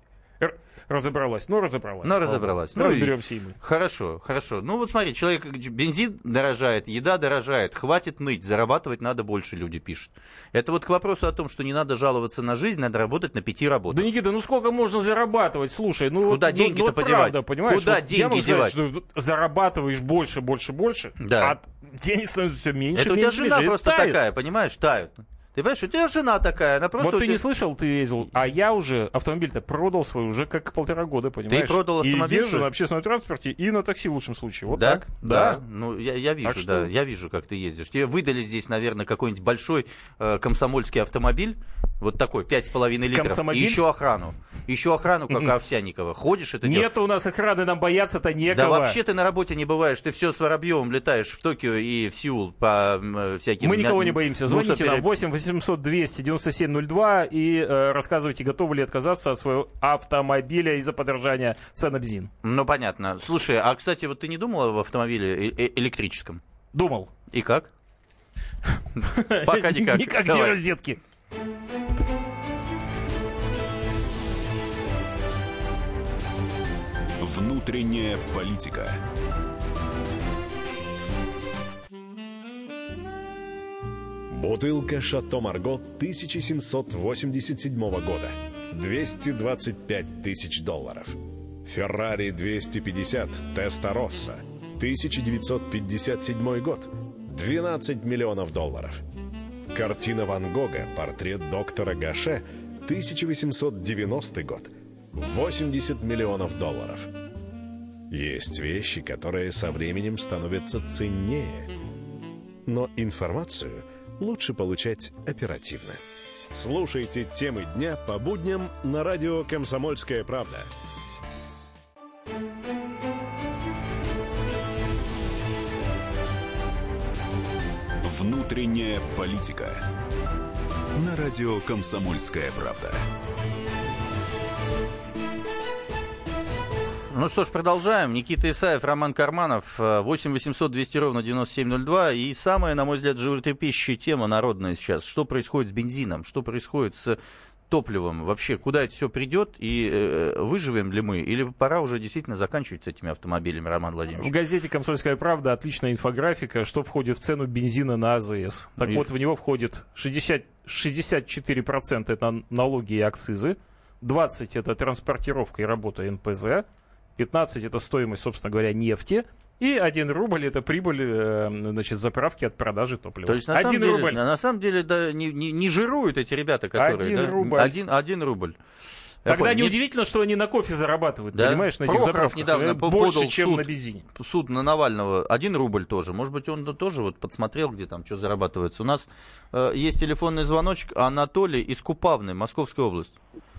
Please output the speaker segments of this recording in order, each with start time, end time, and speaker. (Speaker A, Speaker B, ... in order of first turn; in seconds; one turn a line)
Speaker A: 0.4-3.6
Speaker B: 2.0-14.1
Speaker A: 13.9-24.2
Speaker B: 16.2-18.8
Speaker B: 21.2-21.6
Speaker B: 22.9-27.4
Speaker A: 27.0-35.6
Speaker B: 31.5-32.7
Speaker B: 34.7-46.9
Speaker A: 36.4-36.9
Speaker A: 43.1-43.8
Speaker A: 46.6-49.0
Speaker B: 48.5-55.1
Speaker A: 53.6-62.3
Speaker B: 62.4-66.4
Speaker A: 66.7-67.1
Speaker B: 67.3-67.7
Speaker A: 69.1-71.0
Speaker B: 69.4-70.6
Speaker C: 77.2-79.0
Speaker D: 84.3-99.0
Speaker D: 99.7-107.1
Speaker D: 108.1-111.7
Speaker D: 112.7-116.0
Speaker D: 116.5-120.7
Speaker C: 128.0-129.8
Speaker C: 131.0-133.0
Speaker B: 137.1-147.2
Speaker B: 147.7-154.3
Speaker A: 154.2-166.7
Speaker B: 158.8-159.1
Speaker A: 167.2-174.2
Speaker B: 173.2-178.6
Speaker A: 176.8-177.7
Speaker B: 179.2-179.7
Speaker A: 179.2-184.0
Speaker B: 181.3-193.2